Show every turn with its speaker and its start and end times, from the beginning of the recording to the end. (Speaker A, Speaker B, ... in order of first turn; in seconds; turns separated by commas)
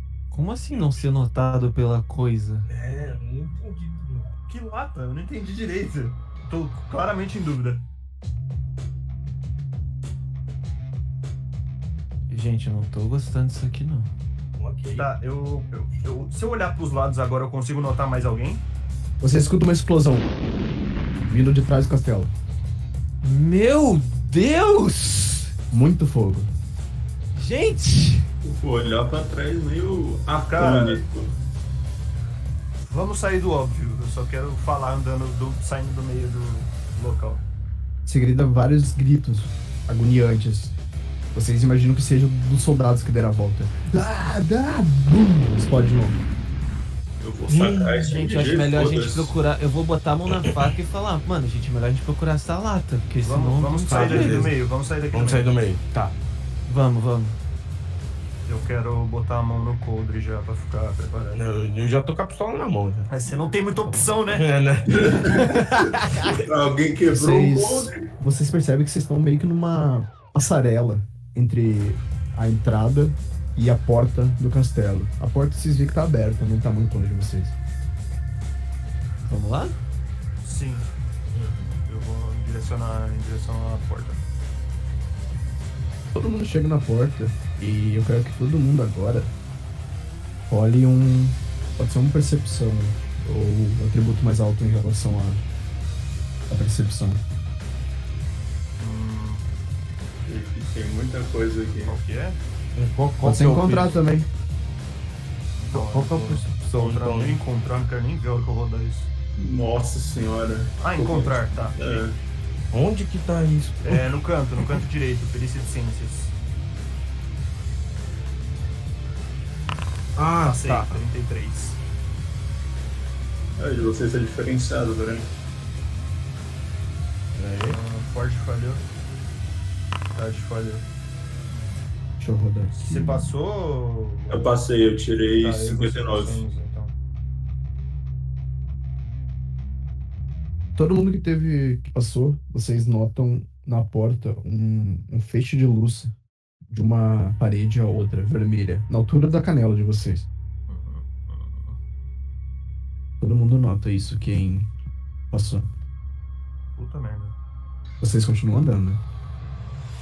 Speaker A: 0.3-2.7, Speaker B: 2.7-4.3, Speaker C: 4.5-7.8, Speaker A: 12.3-14.1, Speaker B: 14.6-15.1, Speaker C: 15.0-18.6, Speaker D: 19.2-20.3, Speaker D: 21.2-22.3, Speaker A: 23.2-25.5, Speaker D: 25.7-26.5, Speaker A: 27.3-28.3, Speaker E: 28.4-31.3, Speaker C: 30.4-31.0, Speaker C: 32.8-37.4, Speaker D: 38.0-40.8, Speaker D: 41.3-46.2, Speaker E: 47.2-49.3, Speaker B: 47.5-48.1, Speaker A: 48.0-54.5, Speaker C: 53.2-55.5, Speaker B: 53.9-54.6, Speaker B: 55.1-56.1, Speaker A: 56.6-57.4, Speaker C: 58.5-61.4, Speaker B: 61.3-63.1, Speaker C: 63.1-64.4, Speaker B: 64.1-65.5, Speaker E: 64.9-68.1, Speaker A: 65.3-66.3, Speaker D: 67.1-77.5, Speaker A: 79.2-79.8, Speaker C: 80.4-80.9, Speaker B: 81.3-81.7, Speaker C: 81.8-84.2, Speaker D: 86.1-89.3, Speaker D: 90.5-95.4, Speaker D: 96.5-97.2, Speaker C: 98.8-99.5, Speaker E: 100.2-102.0, Speaker C: 101.8-102.4, Speaker B: 102.7-104.0, Speaker D: 103.2-104.3, Speaker C: 105.5-109.1, Speaker B: 105.7-107.4, Speaker E: 109.4-112.2, Speaker C: 110.8-112.0, Speaker B: 112.7-114.1, Speaker C: 113.8-116.3, Speaker B: 120.2-121.0, Speaker C: 120.4-121.8, Speaker E: 123.6-125.3, Speaker B: 127.4-127.8, Speaker C: 127.7-128.8, Speaker C: 130.1-130.8, Speaker D: 132.2-133.3, Speaker C: 132.7-134.6, Speaker E: 134.3-136.4, Speaker C: 135.4-136.9, Speaker D: 140.8-146.1, Speaker D: 146.7-150.3, Speaker C: 150.7-151.8, Speaker D: 153.2-154.7, Speaker D: 155.3-155.6, Speaker C: 156.8-157.3, Speaker D: 158.0-159.0